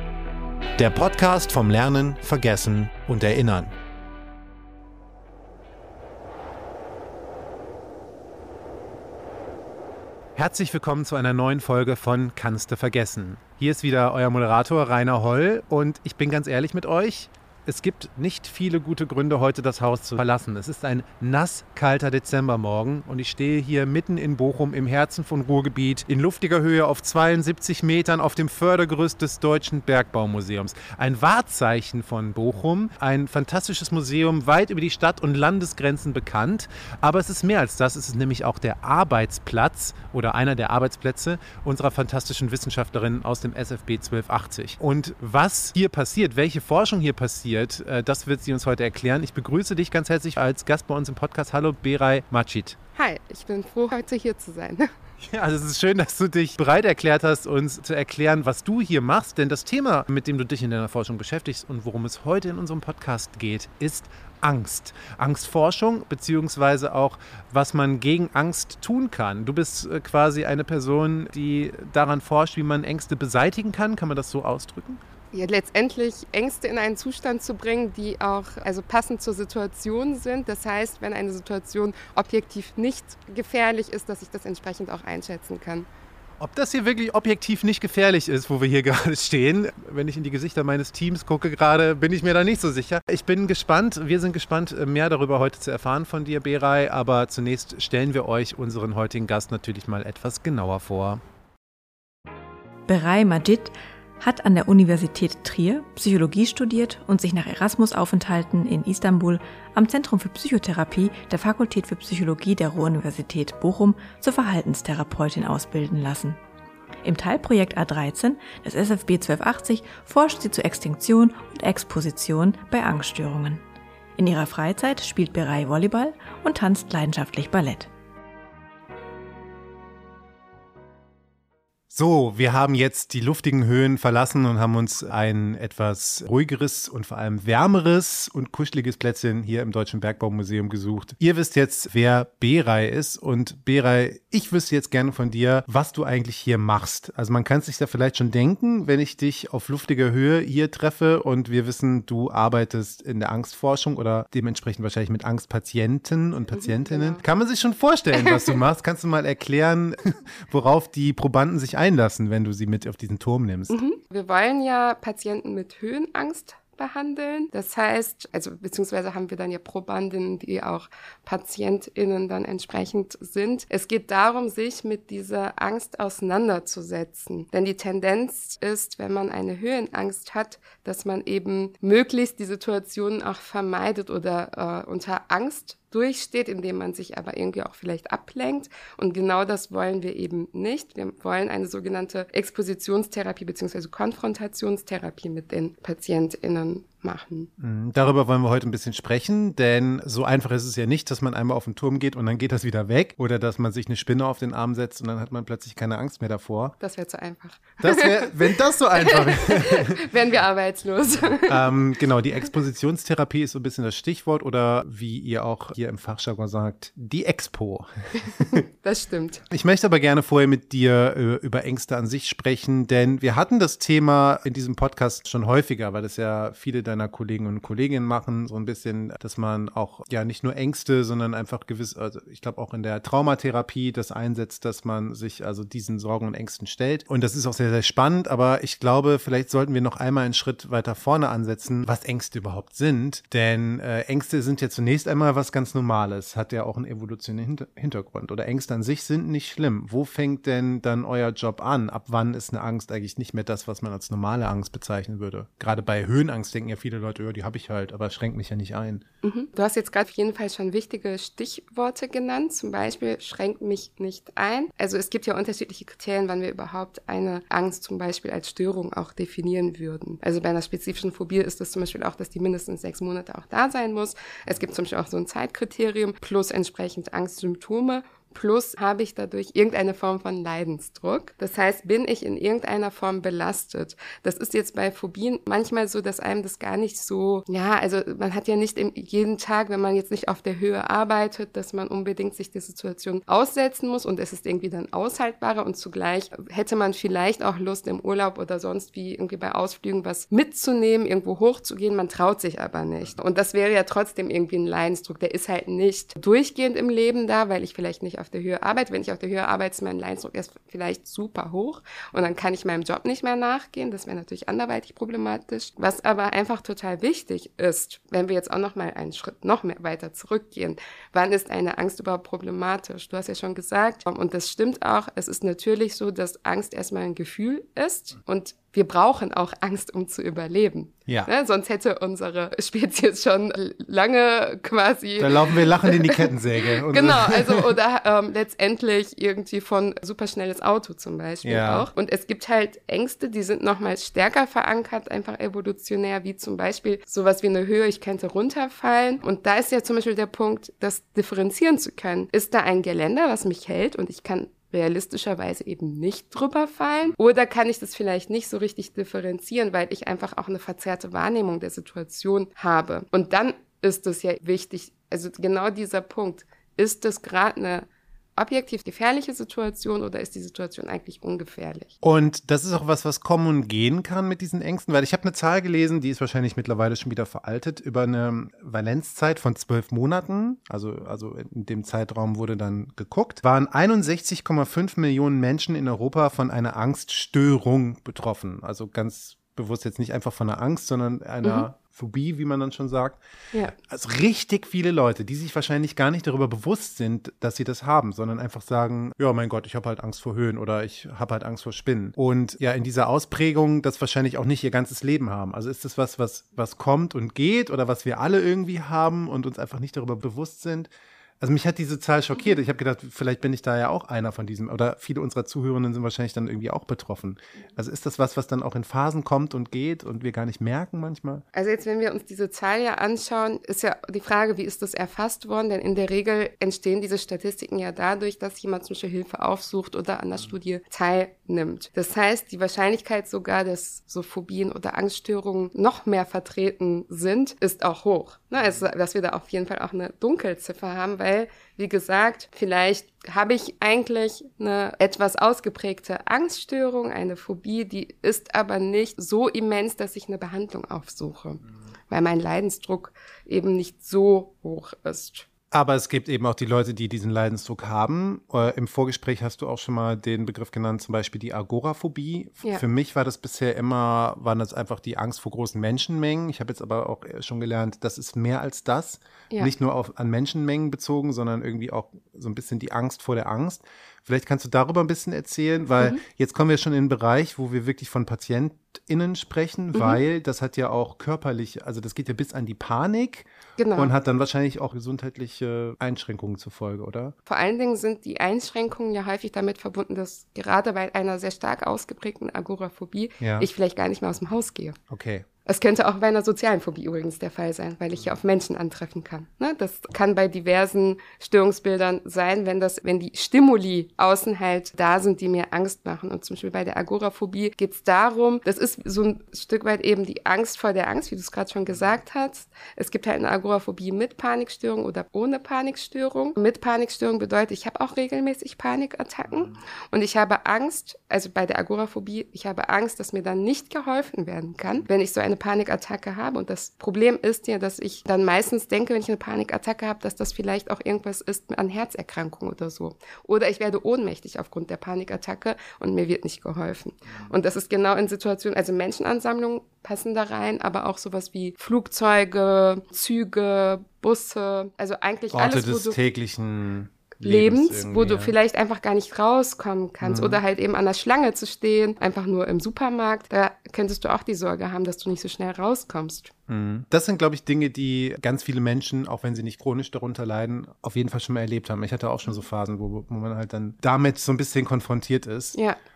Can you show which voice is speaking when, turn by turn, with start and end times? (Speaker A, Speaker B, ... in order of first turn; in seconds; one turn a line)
Speaker A: 0.8-3.8
Speaker A: 10.4-52.8
Speaker B: 53.0-54.9
Speaker A: 55.2-75.0
Speaker B: 75.3-85.9
Speaker A: 86.4-101.2
Speaker C: 102.9-116.4
Speaker C: 117.0-123.6
Speaker C: 124.2-127.9
Speaker A: 131.9-163.8
Speaker B: 156.5-157.2
Speaker B: 158.2-158.6
Speaker B: 163.7-197.5
Speaker A: 197.6-206.8
Speaker B: 206.8-211.7
Speaker A: 207.8-210.1
Speaker A: 211.4-218.6
Speaker B: 218.5-219.4
Speaker A: 219.5-259.0
Speaker B: 259.2-336.3
Speaker A: 335.2-337.8
Speaker B: 336.9-371.9
Speaker A: 341.4-341.9
Speaker A: 372.0-393.2
Speaker A: 393.9-421.4
Speaker B: 421.6-455.5
Speaker A: 455.7-487.4
Speaker B: 479.9-480.2
Speaker B: 483.8-484.1
Speaker B: 487.5-495.0
Speaker A: 493.4-493.7
Speaker A: 495.1-495.5
Speaker B: 495.6-546.2
Speaker A: 545.5-548.5
Speaker B: 547.4-556.5
Speaker A: 550.2-550.6
Speaker A: 556.7-565.8